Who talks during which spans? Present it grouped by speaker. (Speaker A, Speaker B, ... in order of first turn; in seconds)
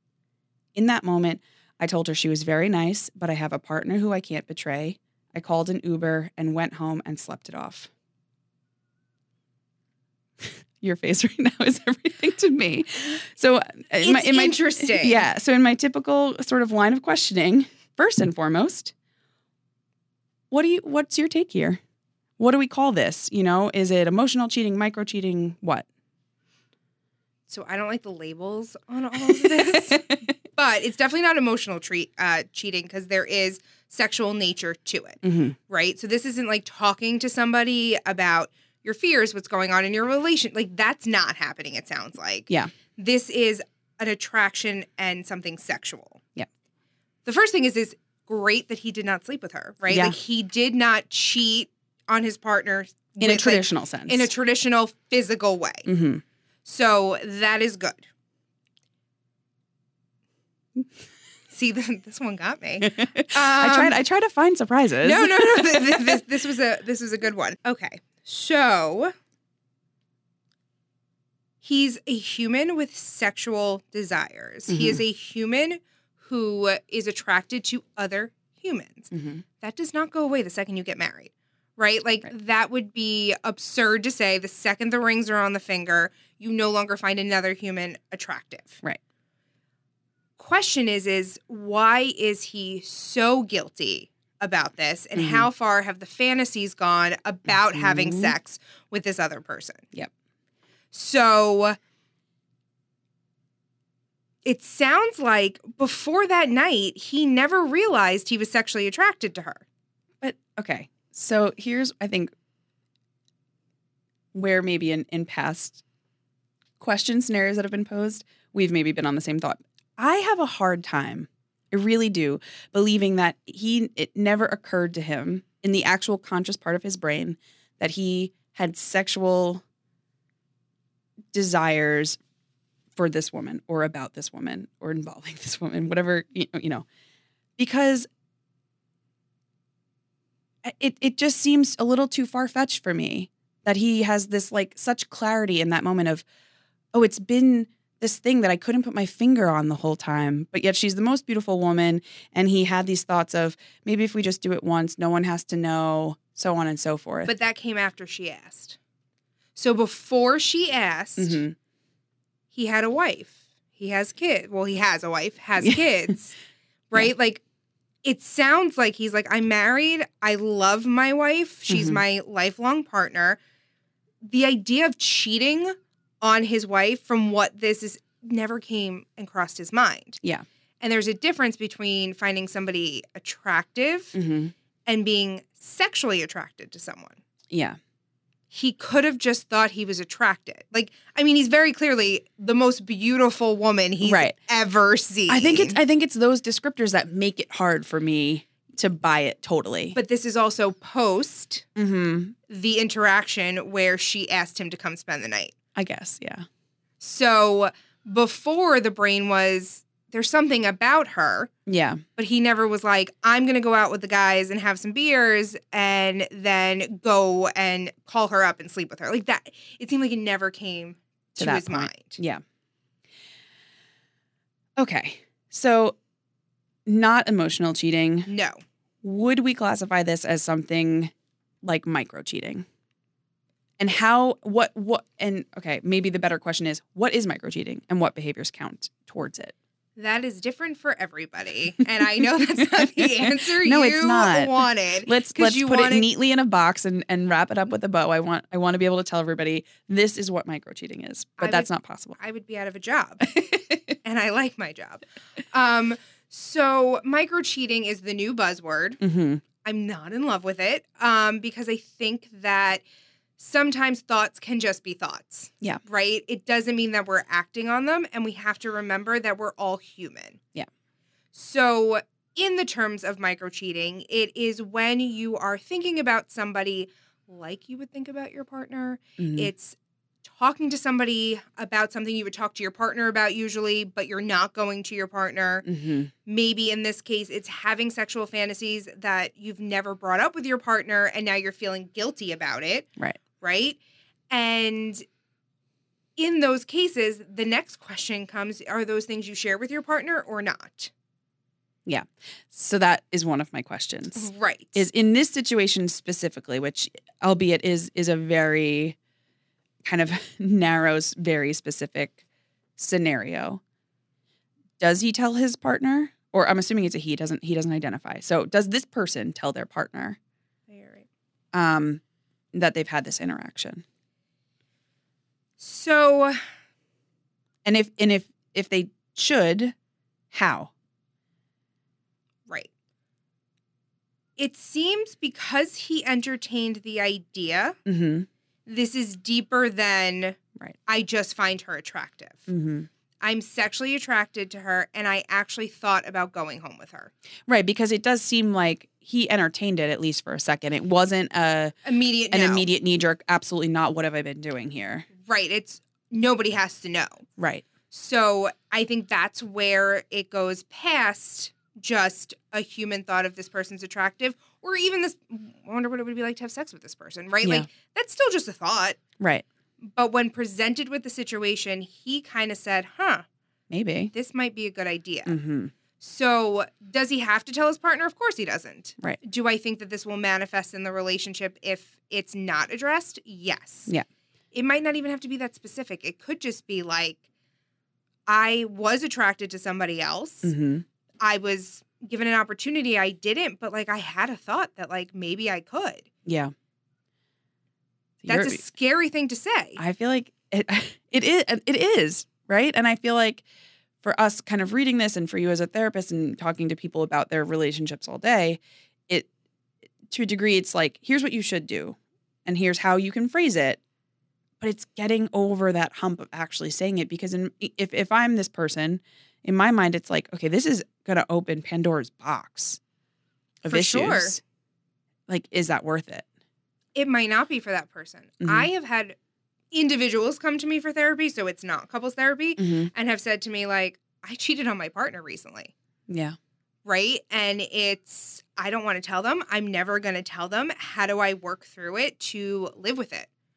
Speaker A: 0.8-7.9, 10.4-18.9, 20.5-21.8, 22.4-25.9, 29.2-30.3, 35.2-35.6, 49.9-50.2, 53.2-54.3, 55.8-56.2, 62.8-66.2, 74.7-75.0, 79.1-79.4, 95.2-95.5, 97.7-98.3, 110.2-112.3, 114.3-115.8, 116.8-129.6, 131.3-132.2, 133.0-136.8, 137.6-138.1, 140.6-146.2, 146.9-157.3, 161.2-161.6, 171.7-172.0, 184.1-184.5, 187.5-187.8, 194.0-194.3, 195.3-200.0, 201.8-202.3, 205.7-206.4, 211.7-212.0, 221.4-222.4, 224.8-226.0, 226.8-228.3, 229.0-231.1, 231.6-232.7, 233.8-239.5, 242.5-252.2, 253.3-253.9, 259.0-259.4, 279.2-279.5, 285.6-286.1, 301.9-309.0, 309.8-312.2, 312.8-313.6, 314.8-320.2, 321.5-322.0, 322.5-323.8, 327.6-329.8, 330.3-330.7, 337.9-338.3, 342.5-342.9, 347.5-351.7, 352.3-355.1, 357.4-357.6, 369.2-369.4, 373.7-374.1, 375.2-375.7, 390.4-390.8, 396.2-396.5, 398.2-398.6, 399.8-403.4, 404.0-409.3, 410.1-413.8, 414.6-422.8, 423.6-424.4, 425.3-426.2, 428.4-428.7, 432.6-432.9, 436.1-436.4
Speaker B: 14.0-15.2, 27.5-46.2, 47.2-55.9, 56.6-58.0, 61.5-64.0, 65.0-69.1, 71.6-88.8, 90.4-99.9, 100.9-101.8, 104.4-109.6, 157.2-158.8, 159.6-161.4, 162.5-166.3, 166.9-167.4, 168.0-173.4, 174.2-180.2, 180.8-184.2, 184.8-187.2, 188.5-195.8, 199.9-201.7, 202.5-205.5, 207.0-211.5, 212.2-222.2, 228.3-228.6, 240.0-246.1, 251.4-253.4, 254.0-259.0, 259.6-262.8, 263.4-270.4, 271.3-285.6, 286.2-292.9, 293.4-293.8, 294.3-295.1, 296.2-300.9, 304.2-304.8, 320.7-321.1, 325.6-326.4, 334.4-337.8, 338.6-342.5, 343.2-347.1, 351.8-352.6, 355.2-357.2, 357.9-369.0, 369.8-373.2, 374.1-375.4, 376.0-383.9, 384.5-387.2, 388.3-390.5, 391.2-396.1, 398.3-399.8, 423.7-424.4, 426.9-429.1, 429.7-435.7, 436.8-443.3